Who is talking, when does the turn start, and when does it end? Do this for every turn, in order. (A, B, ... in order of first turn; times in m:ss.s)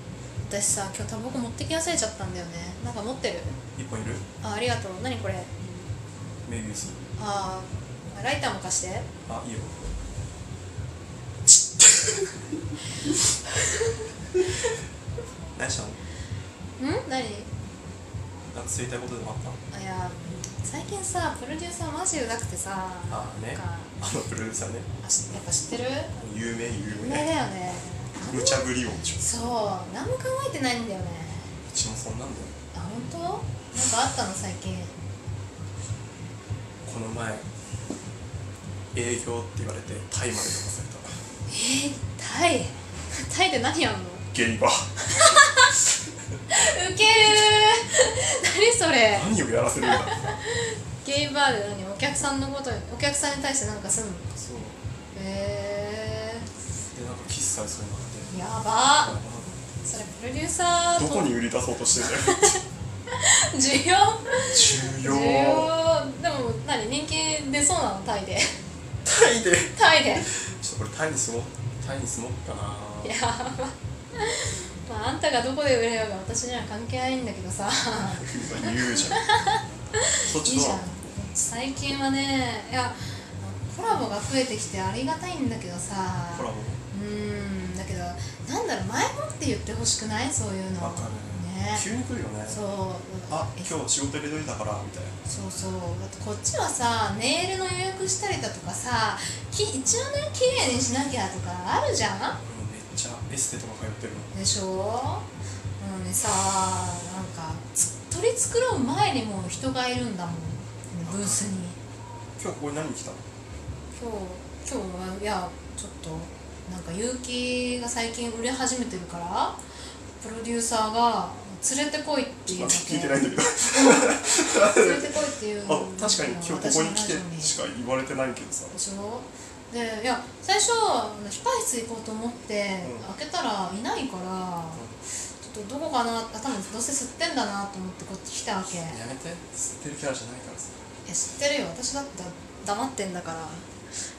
0:00.4-0:03.6 A
0:03.8-0:04.2 B
0:04.4-0:05.5 A
0:06.4-0:07.0 B
0:07.2-0:09.1 A
0:09.3-0:09.8 B
0:11.8-0:12.3 B
0:15.6-0:16.0 B
0:16.8-0:17.5 A
0:18.5-0:19.6 B
0:19.7-0:23.9 A
0:23.1-0:24.9 B
0:25.0-0:26.2 A
0:26.2-0:27.3 B
0:26.8-0:31.5 A
0:28.2-0:29.2 B
0:31.7-0:32.5 B
0:32.7-0:34.9 A
0:36.8-0:37.4 B
0:38.9-0:41.2 B
0:41.5-0:44.3 A
0:44.3-0:44.9 B
0:45.2-0:45.7 A
0:46.5-0:49.3 A
0:49.1-0:50.2 B
0:49.8-0:54.3 A
0:54.3-0:54.8 B
0:55.1-0:56.5 A
0:56.9-0:59.6 B
0:58.3-0:59.2 A
0:59.8-1:01.4 A
1:01.0-1:02.6 B
1:02.2-1:02.6 A
1:03.1-1:08.5 A
1:04.5-1:05.7 B
1:09.0-1:09.8 B
1:09.7-1:10.3 A
1:10.6-1:13.2 B
1:13.0-1:31.9 A
1:18.2-1:19.3 B
1:20.2-1:20.8 B
1:26.3-1:26.8 B
1:30.8-1:32.6 B
1:32.5-1:33.7 A
1:33.3-1:35.2 B
1:35.3-1:42.4 A
1:42.4-1:44.3 B
1:44.3-1:45.3 A
1:45.8-1:51.8 A
1:51.1-1:51.5 B
1:52.4-1:53.2 B
1:53.9-1:59.6 A
2:00.2-2:07.5 A
2:02.5-2:05.1 B
2:05.7-2:08.8 B
2:08.7-2:14.8 A
2:12.8-2:13.1 B
2:15.4-2:19.0 A
2:18.7-2:20.8 B
2:21.1-2:23.7 A